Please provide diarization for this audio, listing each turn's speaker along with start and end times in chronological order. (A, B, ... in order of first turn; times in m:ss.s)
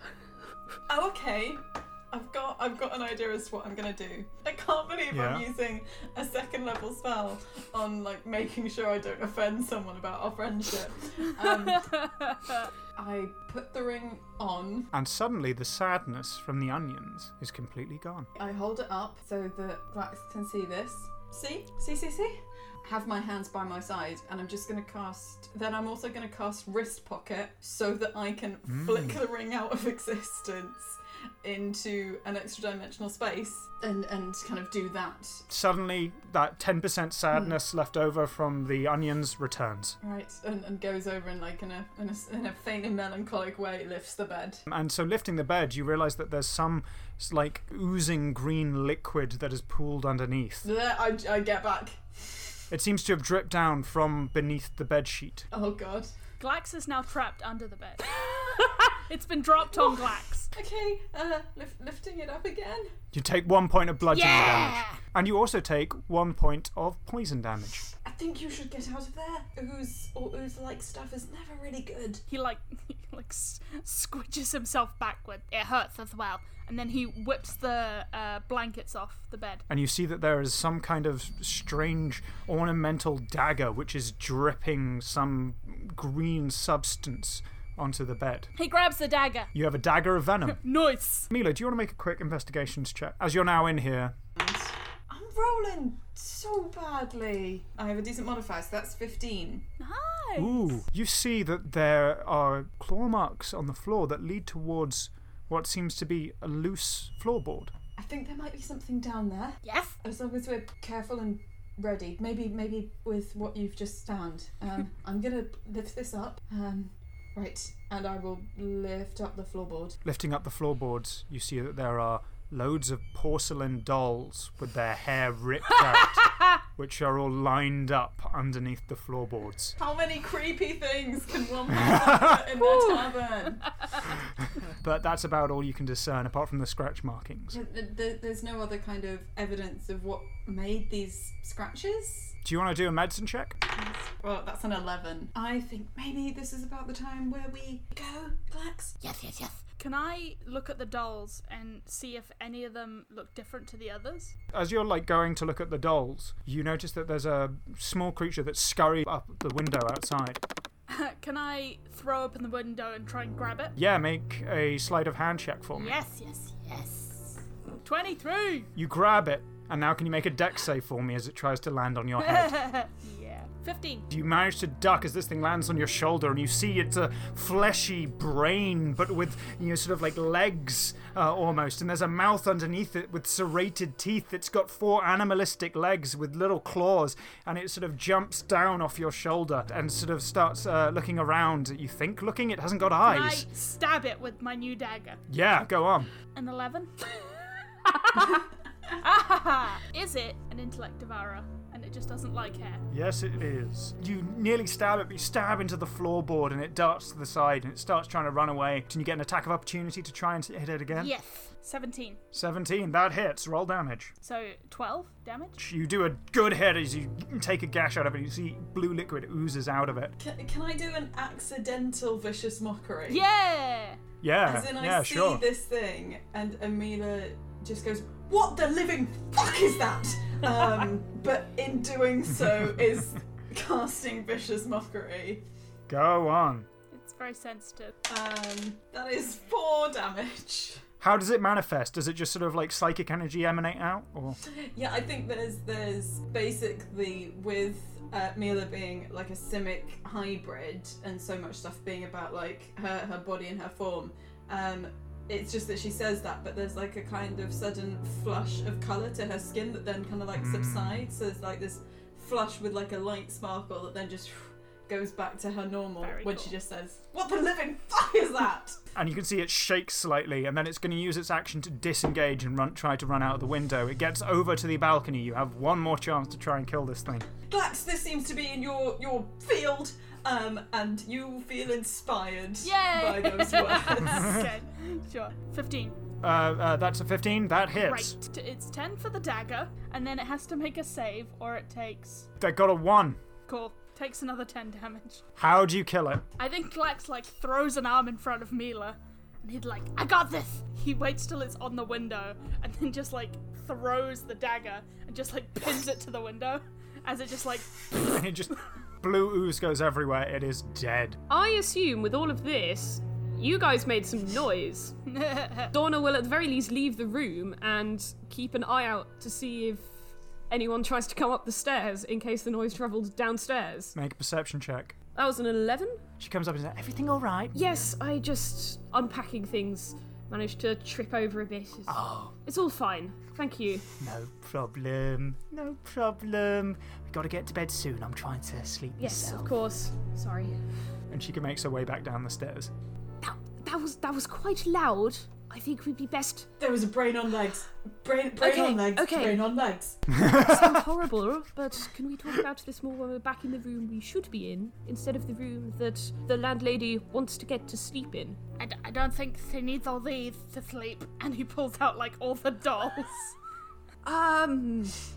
0:00.9-0:11.9 A
0:05.1-0:05.4 B
0:11.4-0:12.7 C
0:12.9-0:14.9 A
0:14.9-0:18.3 B
0:18.3-0:35.5 A
0:28.7-0:29.2 B
0:35.5-0:40.0 B
0:40.0-0:44.6 A
0:44.7-0:50.7 B
0:50.6-0:52.6 A
0:52.7-0:55.5 B
0:55.5-0:56.1 A
0:56.4-1:00.5 C
1:00.5-1:02.9 A
1:03.1-1:07.9 B
1:04.1-1:05.0 C
1:08.0-1:12.2 A
1:12.3-1:19.6 C
1:19.7-1:28.5 B
1:28.6-1:29.5 C
1:29.5-1:30.6 B
1:30.5-1:31.3 C
1:31.3-1:34.2 B
1:34.4-1:39.6 A
1:39.8-1:40.8 C
1:40.4-1:47.7 B
1:48.0-2:00.0 A
1:49.6-1:50.0 C
2:00.0-2:09.7 B
2:09.8-2:14.0 A
2:11.7-2:12.3 B
2:12.6-2:13.1 D
2:14.2-2:17.6 B
2:17.5-2:22.4 A
2:22.4-2:23.6 B
2:23.7-2:29.0 A
2:29.0-2:34.3 C
2:34.5-2:40.4 B
2:40.9-2:43.7 C
2:43.8-2:46.0 B
2:45.7-2:48.7 C
2:48.8-2:52.6 B
2:52.2-2:54.1 C
2:54.1-3:13.5 B
3:13.0-3:15.2 C
3:15.3-3:16.1 B
3:16.3-3:17.2 C
3:17.8-3:22.8 C
3:22.9-3:31.1 B
3:30.9-3:32.2 C
3:32.3-3:34.1 B
3:34.2-3:35.6 C
3:35.6-3:40.1 B
3:40.2-3:43.2 A
3:43.1-3:44.0 C
3:44.2-3:45.4 B
3:44.4-3:55.4 A
3:52.5-3:53.0 B
3:55.9-3:56.7 B
3:56.9-3:57.9 C
3:58.1-4:00.8 A
4:01.0-4:04.4 B
4:04.4-4:28.8 A
4:20.3-4:21.1 B
4:26.0-4:26.5 C
4:28.9-4:37.3 B
4:37.5-4:44.4 A
4:42.6-4:46.0 C
4:46.2-4:48.1 B
4:47.7-4:52.3 C
4:52.4-4:53.2 B
4:53.5-4:55.2 C
4:55.4-4:56.2 B
4:56.4-5:08.0 C
5:07.9-5:11.2 B
5:11.3-5:14.9 D
5:15.1-5:15.7 C
5:15.7-5:24.0 D
5:23.9-5:25.0 B
5:25.1-5:26.0 D
5:26.2-5:26.9 B
5:26.8-5:27.8 E
5:27.5-5:33.9 D
5:31.9-5:32.3 E
5:34.0-5:39.5 E
5:39.0-5:40.6 D
5:41.1-5:42.7 B
5:43.2-5:46.5 D
5:46.6-5:50.0 A
5:48.4-5:49.4 D
5:50.1-5:50.8 B
5:50.3-5:58.4 D
5:58.6-6:03.4 C
6:04.0-6:05.0 D